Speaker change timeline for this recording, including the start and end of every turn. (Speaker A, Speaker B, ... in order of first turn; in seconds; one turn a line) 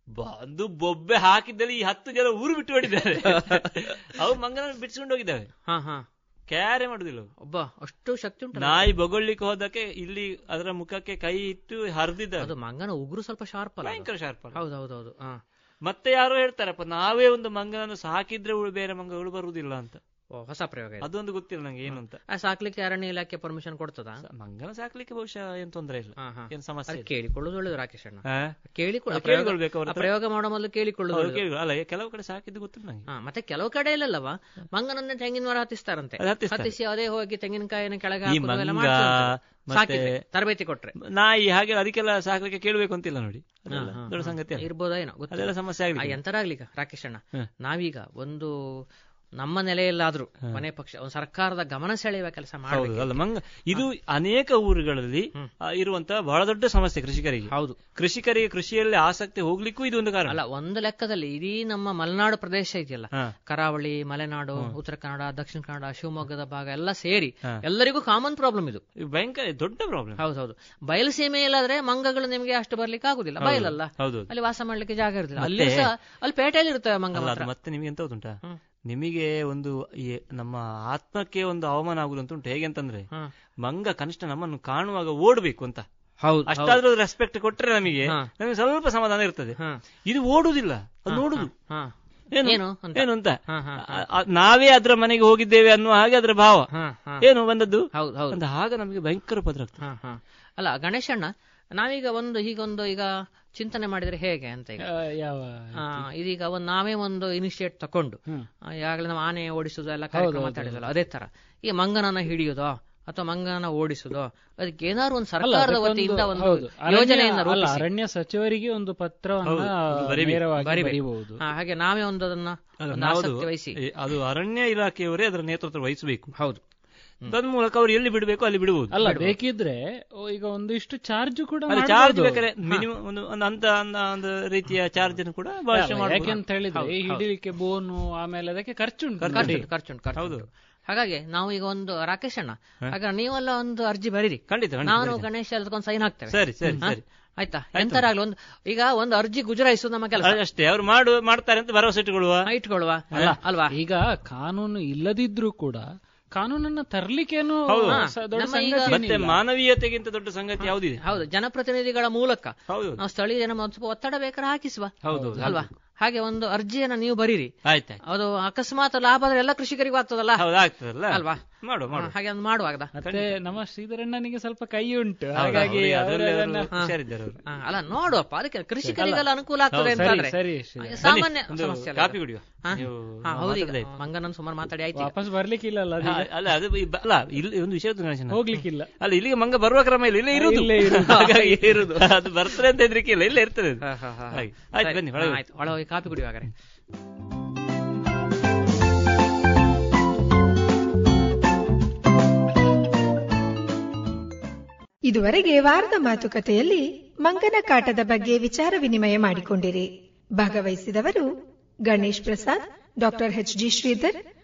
Speaker A: 0.2-5.5
Speaker B: 5.7-6.0
Speaker A: 6.5-7.3
Speaker B: 7.4-8.9
Speaker A: 8.6-12.5
Speaker B: 12.4-15.4
Speaker A: 13.8-14.6
Speaker A: 15.8-20.0
Speaker B: 20.3-21.1
Speaker A: 21.0-22.2
Speaker B: 22.3-24.2
Speaker A: 24.2-27.1
Speaker B: 26.2-31.4
Speaker A: 28.3-28.5
Speaker A: 29.1-30.1
Speaker A: 31.1-33.0
Speaker B: 33.1-40.9
Speaker A: 36.2-36.7
Speaker A: 38.2-40.2
Speaker A: 41.0-44.7
Speaker B: 43.7-48.5
Speaker A: 45.3-46.2
Speaker B: 49.4-53.2
Speaker A: 52.7-60.4
Speaker B: 57.5-57.8
Speaker B: 60.3-68.8
Speaker A: 69.0-70.2
Speaker B: 70.2-77.5
Speaker A: 73.4-74.3
Speaker A: 75.4-75.9
Speaker A: 77.1-83.1
Speaker A: 83.6-85.8
Speaker B: 86.2-86.8
Speaker A: 86.5-89.5
Speaker A: 90.1-91.5
Speaker B: 91.1-91.9
Speaker A: 92.3-96.7
Speaker B: 92.4-94.0
Speaker B: 96.7-97.2
Speaker A: 97.2-99.8
Speaker B: 97.9-98.4
Speaker B: 99.8-104.8
Speaker C: 104.8-106.0
Speaker B: 105.8-117.8
Speaker C: 110.1-110.8
Speaker C: 115.4-121.4
Speaker A: 119.4-120.4
Speaker B: 120.6-123.8
Speaker A: 122.8-126.3
Speaker A: 127.3-129.0
Speaker C: 128.9-132.4
Speaker B: 129.0-129.3
Speaker A: 131.7-136.4
Speaker C: 135.7-139.6
Speaker B: 136.7-137.2
Speaker A: 139.2-140.4
Speaker B: 139.3-150.4
Speaker A: 144.5-145.3
Speaker A: 146.3-147.0
Speaker A: 147.7-148.1
Speaker A: 150.2-152.5
Speaker B: 152.4-153.7
Speaker C: 153.1-159.4
Speaker A: 157.7-158.0
Speaker B: 157.9-158.9
Speaker A: 158.9-161.0
Speaker B: 161.0-167.5
Speaker A: 162.7-163.0
Speaker A: 165.0-165.6
Speaker C: 165.1-165.6
Speaker A: 167.6-168.0
Speaker B: 168.0-170.4
Speaker A: 170.4-172.1
Speaker B: 171.1-171.4
Speaker B: 171.9-172.9
Speaker C: 172.9-176.7
Speaker A: 173.0-173.3
Speaker A: 175.3-177.4
Speaker B: 177.4-185.2
Speaker C: 178.8-179.3
Speaker A: 179.7-180.1
Speaker C: 179.8-181.1
Speaker A: 181.0-184.0
Speaker C: 184.9-186.3
Speaker A: 186.0-195.4
Speaker C: 188.3-188.9
Speaker C: 190.3-191.5
Speaker B: 191.0-192.1
Speaker B: 193.8-196.5
Speaker D: 205.1-211.3
Speaker D: 211.9-214.2